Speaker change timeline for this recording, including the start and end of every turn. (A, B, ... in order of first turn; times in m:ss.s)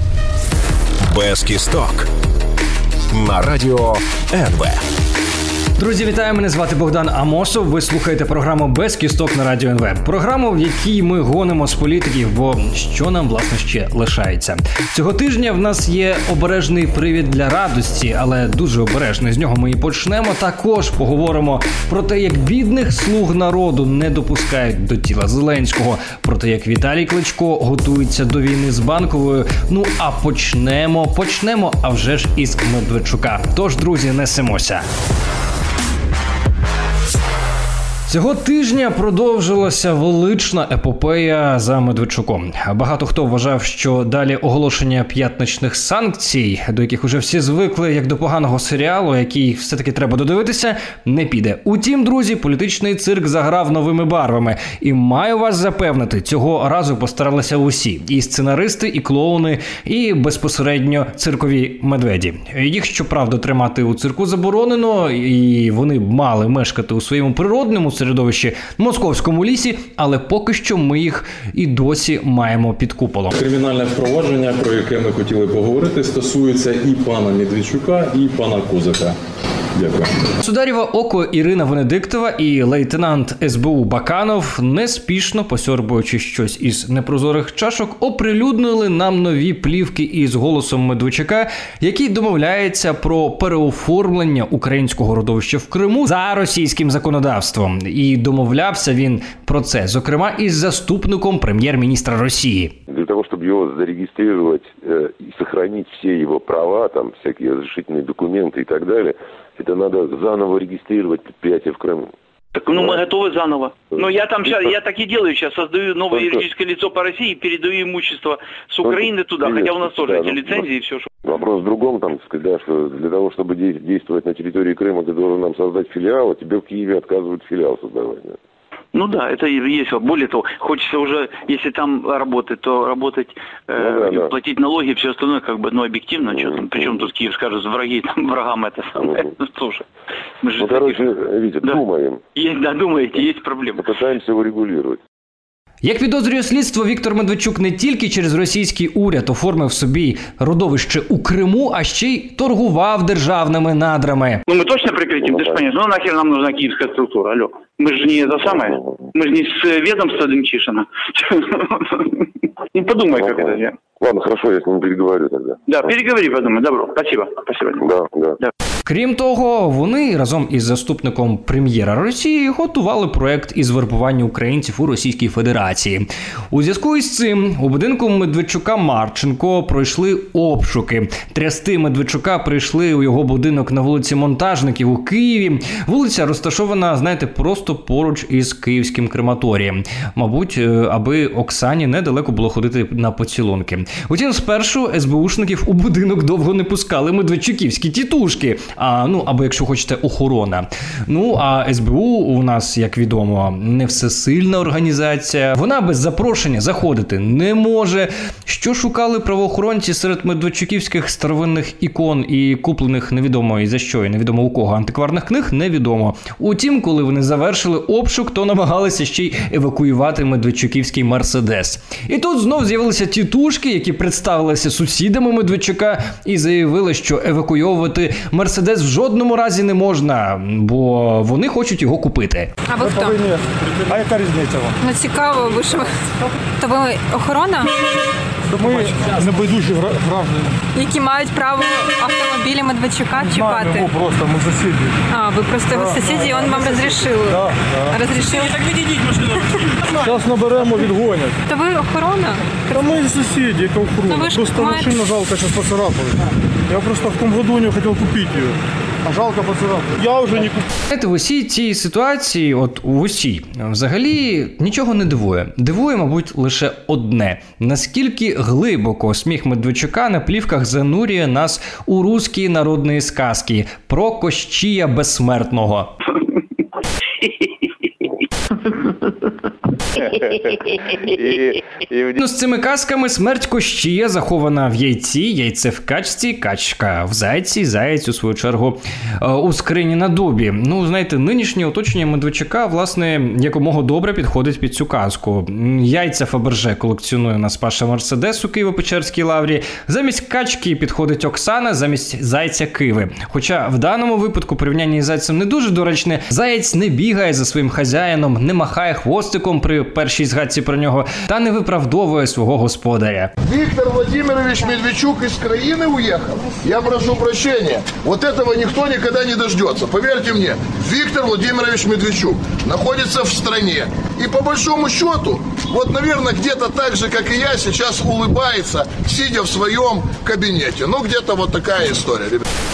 0:01.1-0:02.1 A
0:03.1-0:04.8 A
0:05.8-0:34.8 B
0:38.1-1:13.3 B
1:13.3-1:19.2 C
1:19.8-1:20.1 C
1:20.4-1:42.8 B
1:42.9-1:52.1 D
1:52.6-2:01.1 E
1:52.7-1:53.0 D
1:54.0-1:54.7 D
1:56.1-1:56.4 D
1:58.8-2:00.7 D
2:01.2-2:08.4 D
2:08.9-2:19.8 E
2:13.8-2:14.3 D
2:16.3-2:17.1 D
2:20.4-2:21.0 E
2:20.6-2:22.2 D
2:22.4-2:23.8 E
2:23.8-2:25.0 D
2:25.8-2:34.4 B
2:34.5-2:42.0 E
2:35.3-2:35.6 D
2:42.7-2:43.8 E
2:43.1-2:45.9 D
2:45.7-2:47.9 E
2:47.8-2:48.4 D
2:48.9-3:52.5 B
3:52.7-3:53.2 F
3:52.8-3:53.4 G
3:53.9-3:54.7 G
3:54.8-3:55.9 F
3:56.6-3:57.8 F
3:58.6-4:00.5 G
4:00.8-4:04.0 F
4:03.3-4:04.9 G
4:05.1-4:08.6 F
4:10.1-4:11.3 G
4:11.5-4:12.8 F
4:12.8-4:16.2 G
4:14.1-4:15.1 F
4:16.7-4:20.6 G
4:20.9-4:35.9 B
4:42.2-5:13.3 B
5:13.4-5:32.4 H